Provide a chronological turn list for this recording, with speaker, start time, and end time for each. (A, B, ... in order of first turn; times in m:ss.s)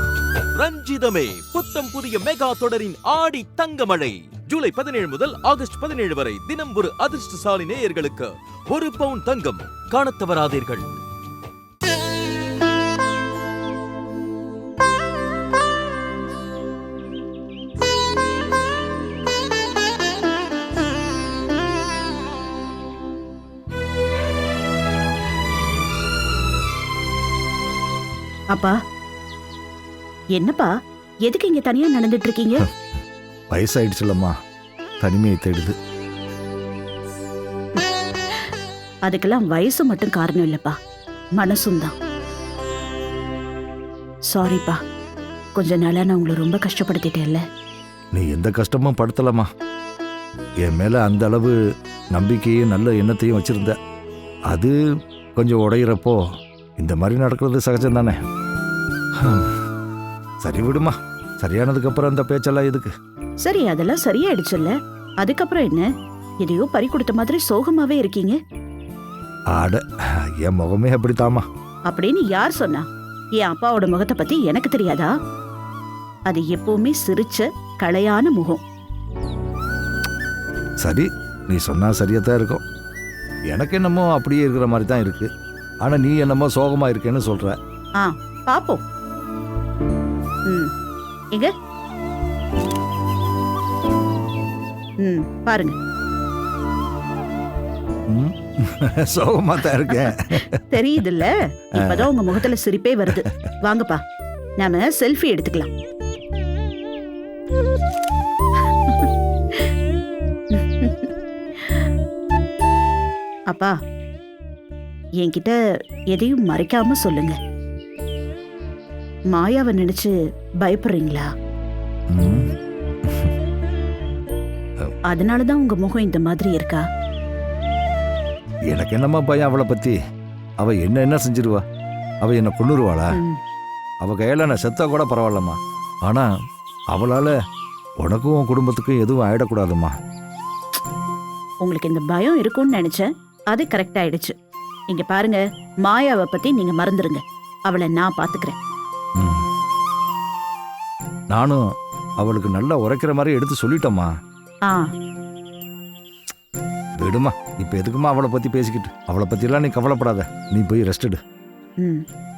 0:00.5-0:11.0 A
0:30.4-0:30.7 B
0:31.3-0:32.7 B
0:33.5-0:34.3 C
0:35.0-0:35.8 C
0:39.1-0:40.8 B
0:41.4-0:41.9 B
0:44.3-0:44.8 B
0:45.6-0:47.4 B
0:48.2-0:49.5 C
0:50.6-0:51.6 C
0:52.1-0:53.8 C
0:54.5-0:54.8 C
0:55.4-0:56.2 C
0:56.8-0:58.2 C
0:59.2-0:59.5 C
1:00.4-1:02.9 C
1:03.4-1:05.9 B
1:06.4-1:08.4 B
1:09.5-1:09.8 C
1:10.4-1:11.4 C
1:11.9-1:12.8 B
1:13.4-1:15.1 B
1:16.3-1:18.6 B
1:20.8-1:22.6 C
1:23.5-1:25.3 C
1:25.8-1:27.6 C
1:28.0-1:28.8 B
1:35.0-1:35.8 B
1:38.1-1:40.6 C
1:39.9-1:44.0 B
1:41.9-1:42.1 C
1:44.6-1:45.7 B
1:48.7-1:49.7 B
1:50.5-1:51.9 B
1:55.2-1:55.6 B
1:56.1-1:57.4 B
1:59.3-2:01.3 B
2:02.1-2:02.5 C
2:03.1-2:03.3 C
2:05.1-2:06.8 B
2:08.7-2:10.0 C
2:10.6-2:11.6 C
2:12.2-2:13.2 C
2:13.1-2:13.4 B
2:14.0-2:16.3 C
2:16.9-2:17.3 C
2:18.0-2:19.9 C
2:21.6-2:24.3 B
2:24.9-2:28.6 B
2:29.2-2:29.4 C
2:31.3-2:31.6 C
2:32.2-2:34.1 C
2:37.0-2:41.2 C